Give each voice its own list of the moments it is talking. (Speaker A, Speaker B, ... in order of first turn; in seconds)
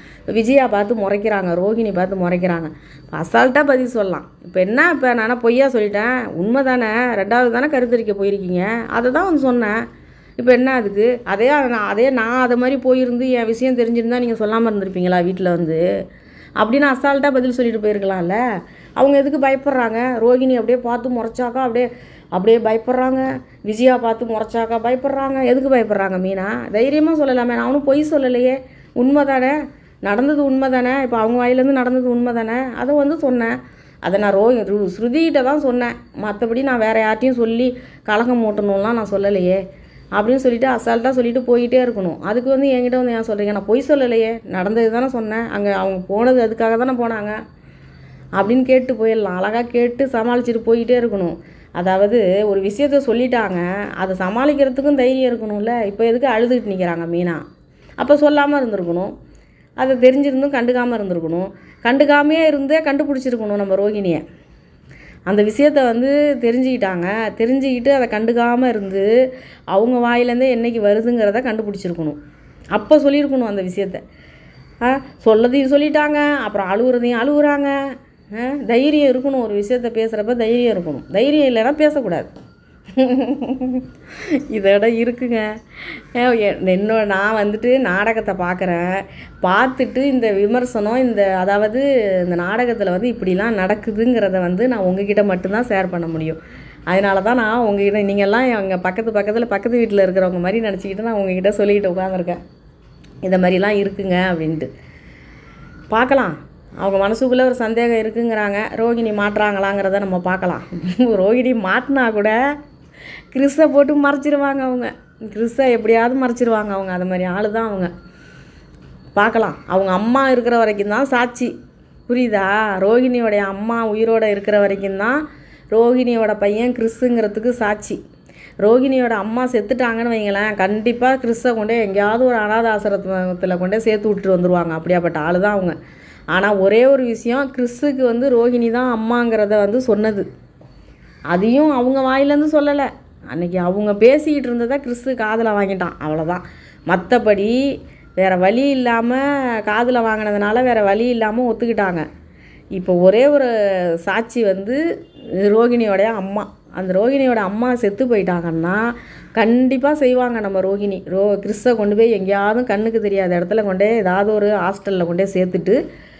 Speaker A: 0.3-9.8, 10.4-15.8, 16.6-18.4, 19.0-39.6, 40.1-47.4, 48.4-57.4, 58.0-59.1, 59.8-64.2, 65.3-69.1, 69.7-72.2, 72.7-74.0, 74.8-77.8, 78.3-82.3, 82.9-83.9, 84.5-102.4, 103.2-104.7, 105.9-112.3, 113.3-117.9, 119.1-121.5, 122.1-128.0, 128.6-135.7, 136.3-140.2, 141.3-147.6, 148.2-152.1, 152.7-154.8, 155.4-165.8